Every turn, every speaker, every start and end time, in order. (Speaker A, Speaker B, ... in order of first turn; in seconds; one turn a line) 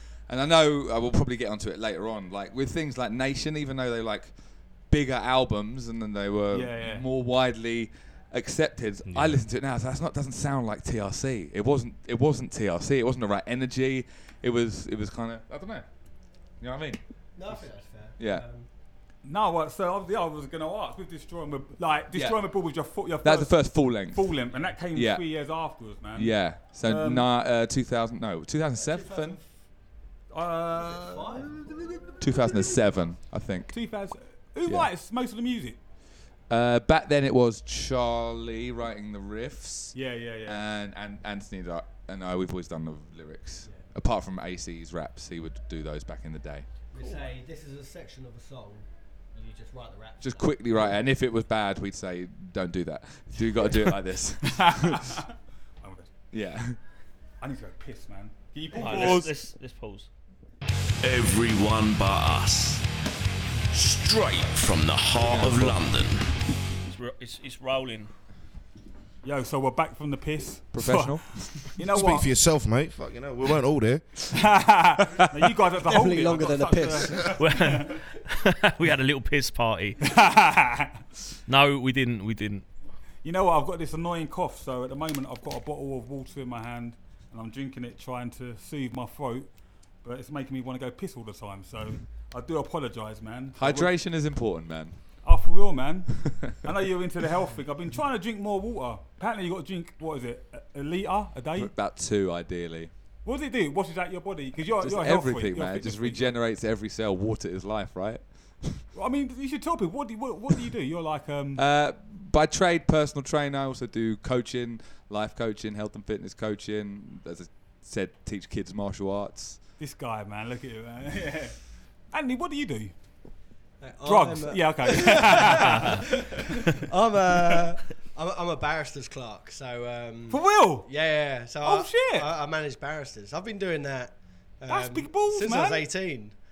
Speaker A: 0.3-4.3
Speaker A: 4.9-15.8
Speaker B: 6.5-7.0
Speaker C: 9.1-9.5
Speaker A: 16.6-17.6
Speaker D: 17.4-18.7
Speaker A: 18.2-18.4
Speaker B: 19.2-27.2
Speaker A: 22.1-22.4
Speaker A: 23.2-24.3
Speaker A: 24.9-25.2
Speaker A: 26.1-29.4
Speaker D: 28.8-29.4
Speaker B: 30.3-31.8
Speaker D: 30.9-31.9
Speaker A: 32.2-33.7
Speaker B: 33.7-35.8
Speaker A: 36.5-46.7
Speaker B: 39.9-40.6
Speaker D: 46.9-50.6
Speaker A: 50.2-55.2
Speaker B: 54.4-55.3
Speaker B: 55.8-56.1
Speaker A: 56.3-56.8
Speaker B: 57.4-59.3
Speaker E: 58.7-60.1
Speaker A: 58.7-59.3
Speaker F: 61.0-62.8
Speaker F: 63.7-66.2
Speaker A: 65.2-65.7
Speaker E: 66.8-68.1
Speaker B: 69.2-72.3
Speaker A: 70.7-71.8
Speaker C: 71.9-74.3
Speaker B: 74.3-78.0
Speaker A: 75.0-75.5
Speaker D: 75.9-77.3
Speaker E: 77.3-80.0
Speaker B: 80.0-81.0
Speaker E: 81.5-82.7
Speaker B: 83.2-89.5
Speaker B: 90.0-93.9
Speaker A: 93.5-95.0
Speaker B: 95.2-101.7
Speaker A: 101.5-102.9
Speaker B: 103.2-106.3
Speaker A: 104.7-108.8
Speaker B: 108.9-111.6
Speaker A: 111.5-119.6
Speaker B: 119.8-121.6
Speaker B: 122.1-122.9
Speaker D: 123.8-136.3
Speaker B: 124.0-126.8
Speaker B: 130.3-130.9
Speaker B: 131.6-132.3
Speaker B: 134.7-135.8